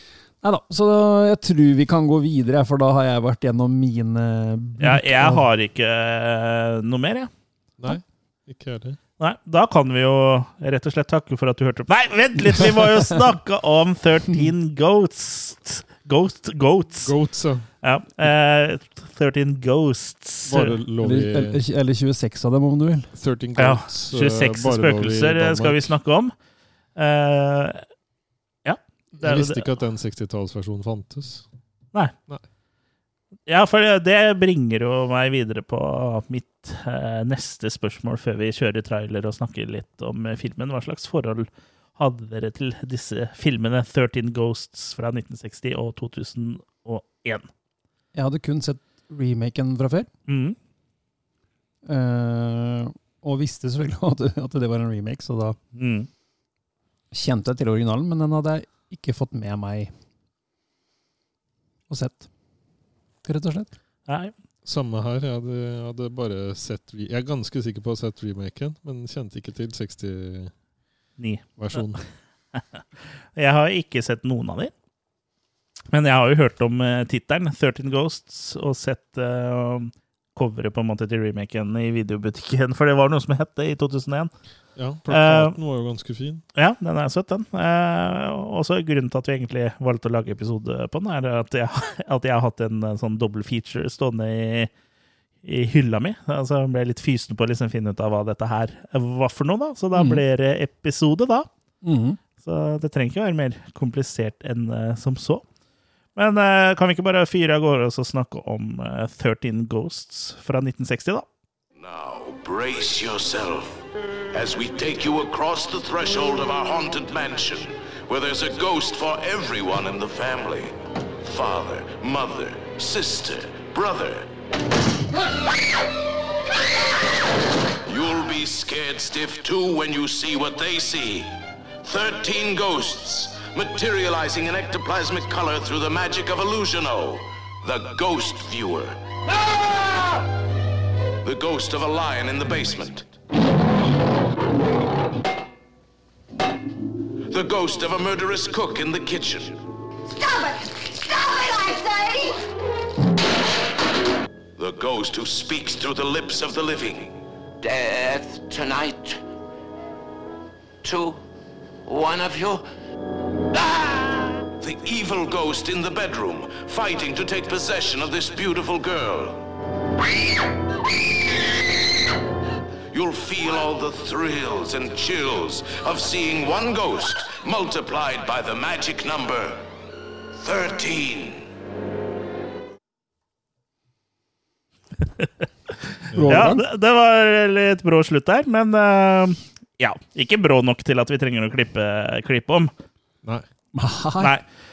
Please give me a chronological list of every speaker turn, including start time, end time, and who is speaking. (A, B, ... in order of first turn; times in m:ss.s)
0:00.4-0:05.4 A
0:04.8-0:07.3 B
0:07.8-0:09.0 C
0:09.2-0:17.1 B
0:12.5-0:13.1 A
0:17.0-0:17.7 C
0:17.8-0:20.7 B
0:20.5-0:21.6 C
0:21.0-0:23.1 A
0:23.2-0:25.9 C
0:23.6-0:26.3 B
0:27.0-0:27.8 B
0:28.6-0:29.6 B
0:29.2-0:31.4 C
0:33.5-0:47.5 B
0:48.1-0:50.1 A
0:50.3-0:50.6 B
0:51.8-0:55.6 A
0:55.7-0:56.1 B
0:57.1-0:59.9 A
1:01.9-1:02.3 A
1:03.2-1:03.7 A
1:04.1-1:04.3 B
1:04.6-1:10.5 C
1:11.2-1:11.8 B
1:11.6-1:12.0 C
1:13.4-1:14.7 B
1:15.9-1:24.3 B
1:24.8-1:26.4 C
1:25.1-1:25.6 B
1:26.5-1:34.7 B
1:35.4-1:41.5 B
1:39.9-1:40.2 A
1:41.8-1:42.2 A
1:42.4-1:45.4 B
1:46.2-1:51.2 B
1:51.7-2:04.3 D
2:07.8-2:19.0 D
2:21.2-2:23.1 D
2:27.3-2:29.6 D
2:30.1-2:32.4 E
2:34.6-2:37.2 D
2:37.6-2:39.0 F
2:40.9-2:41.2 F
2:41.9-2:42.6 F
2:44.6-2:49.4 D
2:52.9-2:59.6 D
3:00.4-3:01.4 D
3:06.1-3:06.5 C
3:06.1-3:06.6 A
3:06.2-3:12.7 B
3:13.7-3:14.4 A
3:14.2-3:14.4 B